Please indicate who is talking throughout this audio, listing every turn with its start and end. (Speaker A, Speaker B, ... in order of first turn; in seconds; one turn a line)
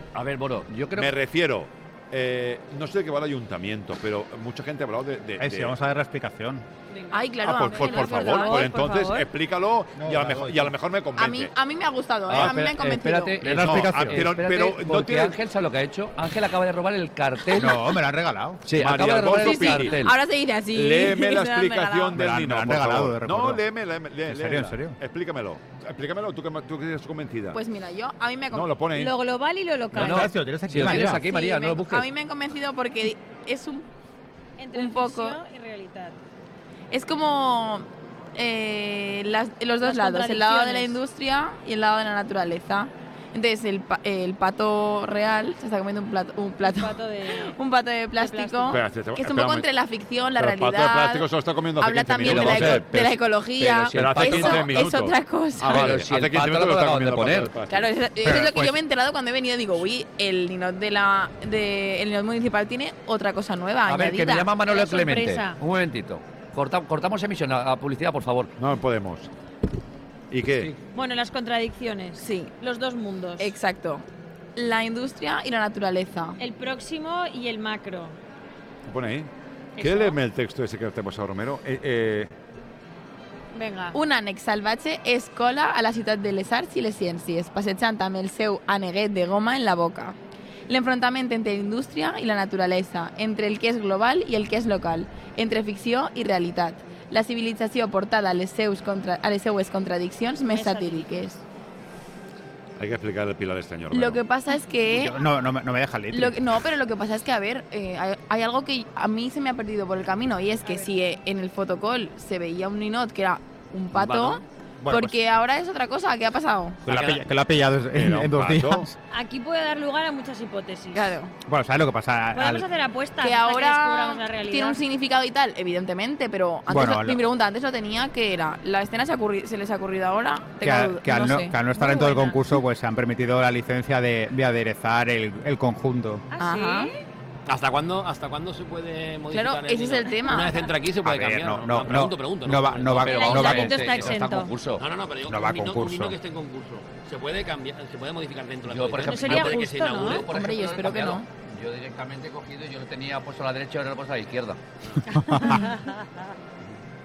Speaker A: 0.1-1.1
Speaker B: 0.9-5.8
Speaker C: 5.4-6.7
Speaker D: 6.9-9.3
Speaker E: 7.1-8.7
Speaker B: 7.4-11.5
Speaker C: 9.9-10.7
Speaker E: 11.2-13.4
Speaker B: 12.3-12.6
Speaker A: 12.3-17.8
Speaker C: 13.4-14.2
Speaker B: 13.5-15.4
Speaker C: 17.5-18.8
Speaker A: 18.7-20.1
Speaker B: 18.7-20.0
Speaker E: 19.3-22.2
Speaker B: 20.7-27.6
Speaker C: 22.1-23.6
Speaker C: 24.3-25.0
Speaker E: 27.5-28.8
Speaker B: 28.5-29.1
Speaker D: 28.9-30.3
Speaker C: 29.9-31.2
Speaker A: 29.9-32.1
Speaker E: 30.9-33.9
Speaker D: 34.6-36.2
Speaker E: 34.8-35.4
Speaker E: 36.9-51.3
Speaker D: 39.8-41.0
Speaker D: 46.6-47.6
Speaker D: 48.1-48.8
Speaker B: 48.7-49.7
Speaker B: 50.4-53.2
Speaker E: 51.8-56.0
Speaker A: 52.2-54.9
Speaker B: 53.9-57.9
Speaker A: 55.6-57.6
Speaker E: 57.7-64.5
Speaker C: 58.2-58.8
Speaker A: 63.9-68.5
Speaker D: 64.6-65.6
Speaker B: 68.6-69.3
Speaker B: 70.3-70.7
Speaker D: 70.9-73.5
Speaker E: 72.2-72.5
Speaker E: 73.4-74.0
Speaker E: 74.6-76.4
Speaker D: 76.4-78.2
Speaker B: 78.8-82.3
Speaker D: 79.8-80.2
Speaker D: 83.5-84.0
Speaker E: 83.9-90.2
Speaker E: 90.7-101.4
Speaker D: 100.5-101.4
Speaker B: 102.8-104.2
Speaker E: 103.9-105.2
Speaker C: 104.9-106.4
Speaker E: 106.1-116.8
Speaker D: 110.7-110.9
Speaker A: 113.9-114.4
Speaker C: 114.8-115.2
Speaker C: 116.9-118.9
Speaker F: 116.9-117.2
Speaker B: 117.9-118.9
Speaker D: 119.1-121.2
Speaker E: 120.9-121.3
Speaker C: 121.5-122.7
Speaker D: 122.3-124.8
Speaker E: 123.2-131.6
Speaker C: 126.7-127.2
Speaker C: 130.6-136.2
Speaker D: 131.7-132.4
Speaker D: 136.3-137.1
Speaker E: 136.4-136.9
Speaker F: 137.5-143.3
Speaker E: 139.3-140.6
Speaker C: 141.0-143.9
Speaker A: 142.9-144.8
Speaker D: 143.0-144.5
Speaker F: 144.8-150.3
Speaker C: 145.3-146.2
Speaker A: 148.6-154.6
Speaker D: 149.0-150.2
Speaker E: 150.2-151.3
Speaker D: 155.1-156.3
Speaker C: 155.2-155.6